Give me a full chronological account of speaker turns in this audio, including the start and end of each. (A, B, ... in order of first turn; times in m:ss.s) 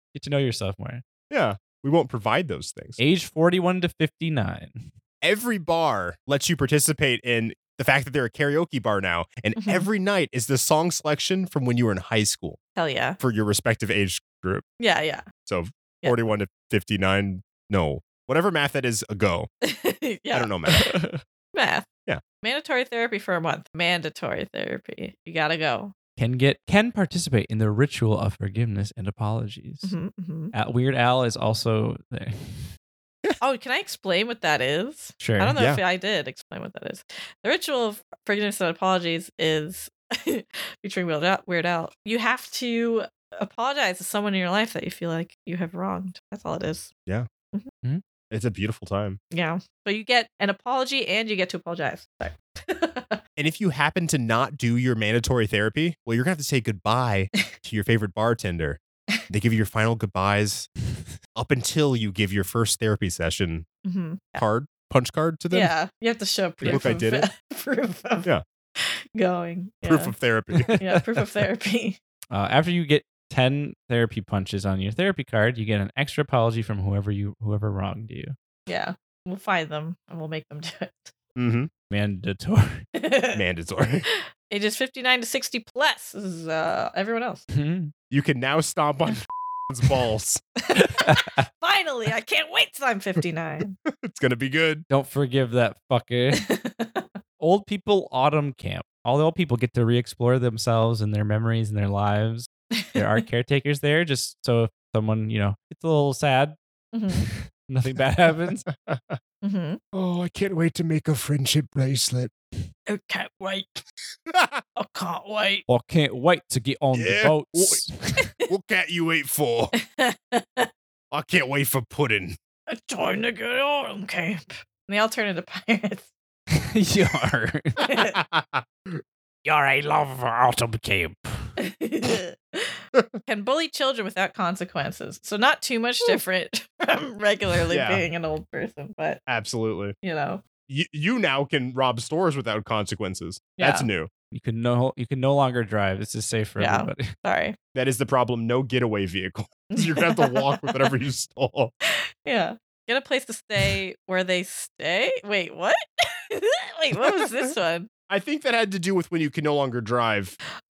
0:00.2-0:01.0 A
0:01.3-0:03.0 B
0:03.0-0:04.8 A
0:05.2-0:12.6 B
0:09.6-0:09.9 C
0:12.8-0:13.2 C
0:13.2-0:14.6 B
0:14.8-0:15.3 C
0:15.5-0:19.5 B
0:19.6-0:21.0 C
0:20.3-0:20.9 B
0:21.5-0:21.9 C
0:22.4-0:25.9 C
0:26.2-0:29.9 A
0:29.8-0:30.5 C
0:30.5-0:32.7 A
0:33.4-0:46.9 C
0:35.2-0:35.6 A
0:48.3-0:49.2 B
0:49.3-0:53.2 C
0:53.4-1:00.7 B
1:01.3-1:03.7 B
1:03.8-1:04.5 C
1:04.4-1:05.7 B
1:05.5-1:10.1 C
1:06.6-1:06.9 A
1:06.7-1:07.3 B
1:09.8-1:10.7 B
1:10.6-1:11.2 A
1:10.8-1:12.0 C
1:12.3-1:18.4 A
1:18.7-1:21.1 C
1:21.4-1:21.7 B
1:21.9-1:22.9 A
1:23.0-1:23.4 C
1:23.4-1:24.1 B
1:24.1-1:27.4 C
1:27.5-1:27.9 A
1:28.1-1:30.4 B
1:30.7-1:33.8 C
1:33.8-1:34.8 B
1:34.9-1:36.4 A
1:36.3-1:37.1 C
1:37.4-1:46.6 A
1:46.9-1:47.2 C
1:47.2-1:48.7 A
1:48.8-1:49.2 B
1:49.4-1:49.8 C
1:49.9-1:52.3 B
1:52.9-1:53.8 C
1:54.3-1:54.6 B
1:54.8-1:55.6 C
1:55.7-1:58.3 A
1:56.9-1:57.8 B
1:58.5-1:59.7 B
1:59.7-2:00.7 C
2:01.1-2:02.4 B
2:02.7-2:06.1 C
2:06.5-2:08.0 A
2:07.9-2:08.2 C
2:08.0-2:09.0 B
2:09.4-2:11.4 A
2:11.6-2:19.2 C
2:17.7-2:18.0 B
2:19.3-2:19.9 B
2:20.0-2:20.4 C
2:20.7-2:24.1 B
2:23.6-2:23.9 C
2:24.3-2:27.1 A
2:26.6-2:27.6 C
2:27.7-2:31.7 B
2:29.7-2:30.9 C
2:31.9-2:37.9 C
2:37.0-2:37.5 B
2:38.1-2:40.4 B